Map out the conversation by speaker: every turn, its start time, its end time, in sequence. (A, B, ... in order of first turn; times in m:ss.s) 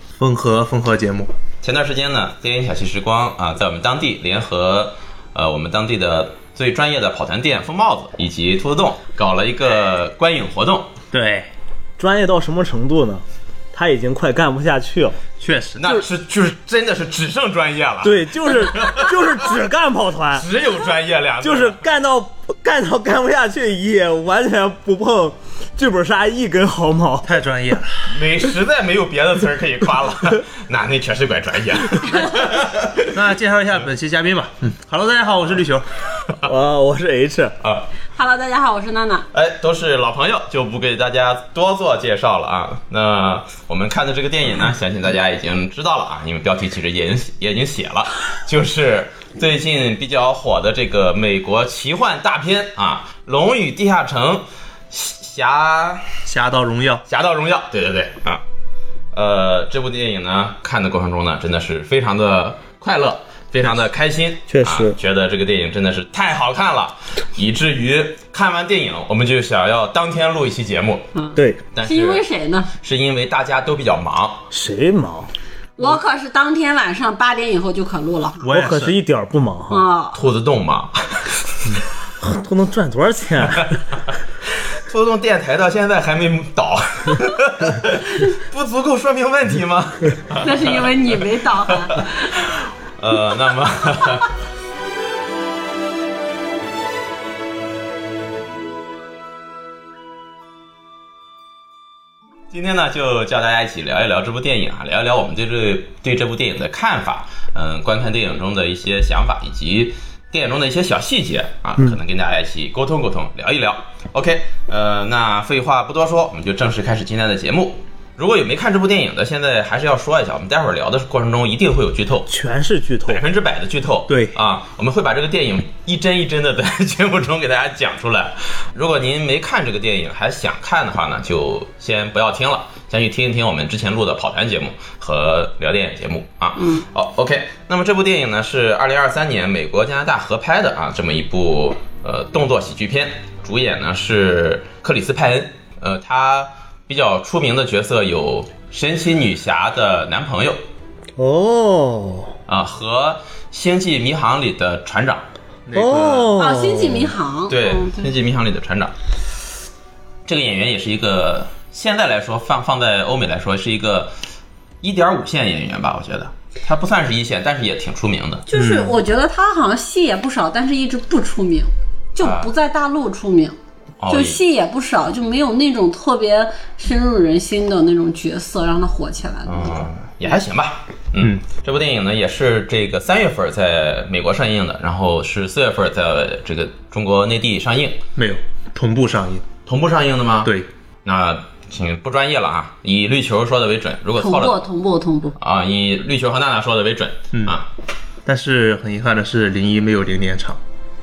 0:00.2-0:01.3 A
0:01.6-0:10.9 B
0:11.1-0:11.5 A
0:12.0-0:15.2 C
0:15.4-0:16.0 A
0:15.8-0:19.2 B
0:18.0-0:20.5 C
0:20.4-0:21.8 B
0:21.4-0:27.3 C
0:27.2-0:28.0 A
0:28.1-0:33.0 B
0:32.0-0:35.8 A
0:36.4-0:37.6 C
0:38.2-0:39.3 D
0:39.3-0:56.0 B
0:56.2-0:57.0 A
0:57.1-0:58.4 B
0:59.1-1:11.1 B
1:04.5-1:05.0 C
1:11.2-1:12.7 D
1:11.4-1:11.6 C
1:11.7-1:12.2 B
1:12.8-1:14.4 B
1:14.5-1:15.3 C
1:15.8-1:18.5 D
1:18.4-1:18.9 A
1:18.5-1:19.8 C
1:19.7-1:20.2 D
1:20.1-1:21.4 B
1:22.2-1:23.8 C
1:24.7-1:34.3 B
1:30.4-1:32.3 D
1:42.5-2:02.3 B
2:02.3-2:03.2 C
2:03.1-2:30.6 B
2:16.6-2:16.8 D
2:31.2-2:32.3 C
2:32.5-2:35.2 B
2:35.7-2:36.4 A
2:35.7-2:37.1 C
2:36.4-2:38.1 D
2:37.5-2:38.9 B
2:40.2-2:44.1 B
2:44.8-2:48.4 B
2:48.5-2:53.5 D
2:48.5-2:48.9 A
2:52.2-2:52.5 B
2:54.0-2:54.4 B
2:54.1-2:59.9 D
2:59.4-3:08.0 B
3:08.2-3:09.4 A
3:09.7-3:10.5 B
3:11.0-3:14.6 B
3:14.2-3:15.4 D
3:15.4-3:17.7 B
3:18.2-3:20.6 A